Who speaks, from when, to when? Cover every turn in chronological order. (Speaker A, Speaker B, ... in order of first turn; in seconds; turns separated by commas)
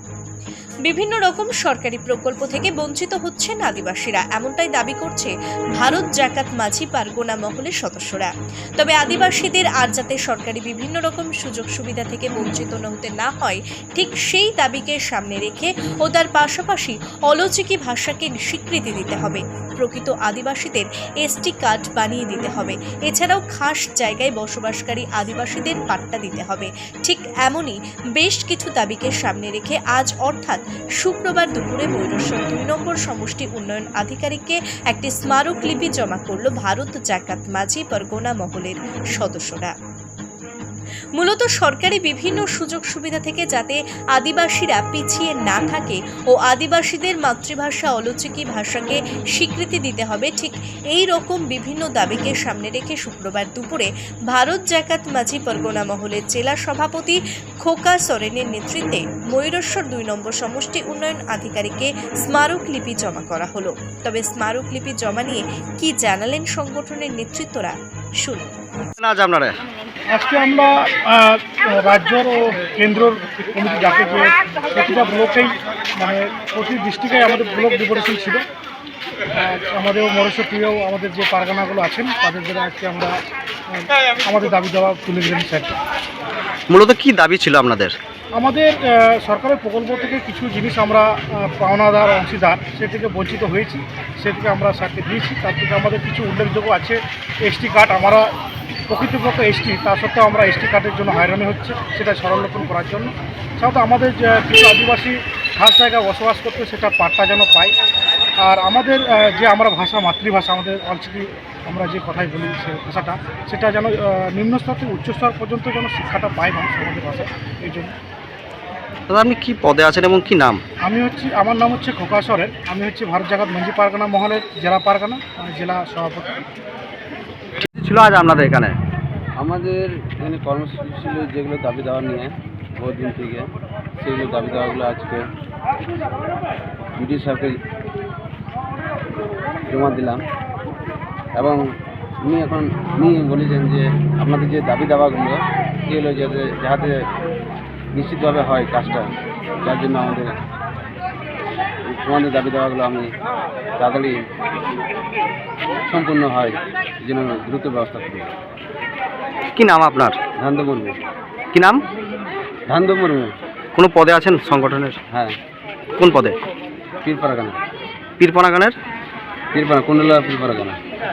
Speaker A: 0.9-39.8, Speaker A: 41.2-68.5, Speaker B: 69.0-69.6, Speaker C: 70.1-78.4, Speaker C: 79.3-83.1, Speaker C: 83.7-85.8, Speaker B: 86.7-88.0, Speaker C: 88.3-98.3, Speaker C: 98.9-107.7, Speaker C: 108.4-117.9, Speaker B: 119.1-120.6, Speaker C: 120.8-126.5, Speaker B: 127.6-128.8, Speaker D: 129.4-135.2, Speaker D: 137.0-137.6, Speaker D: 139.7-140.2, Speaker D: 142.2-147.0, Speaker D: 147.9-150.4, Speaker D: 151.8-153.1, Speaker D: 153.8-154.3, Speaker D: 155.9-158.3, Speaker B: 159.6-160.2, Speaker D: 160.4-161.0, Speaker B: 161.5-161.8, Speaker D: 162.7-163.3, Speaker B: 163.8-165.0, Speaker B: 166.0-166.4, Speaker D: 167.0-167.6, Speaker B: 168.2-168.8, Speaker D: 169.5-170.8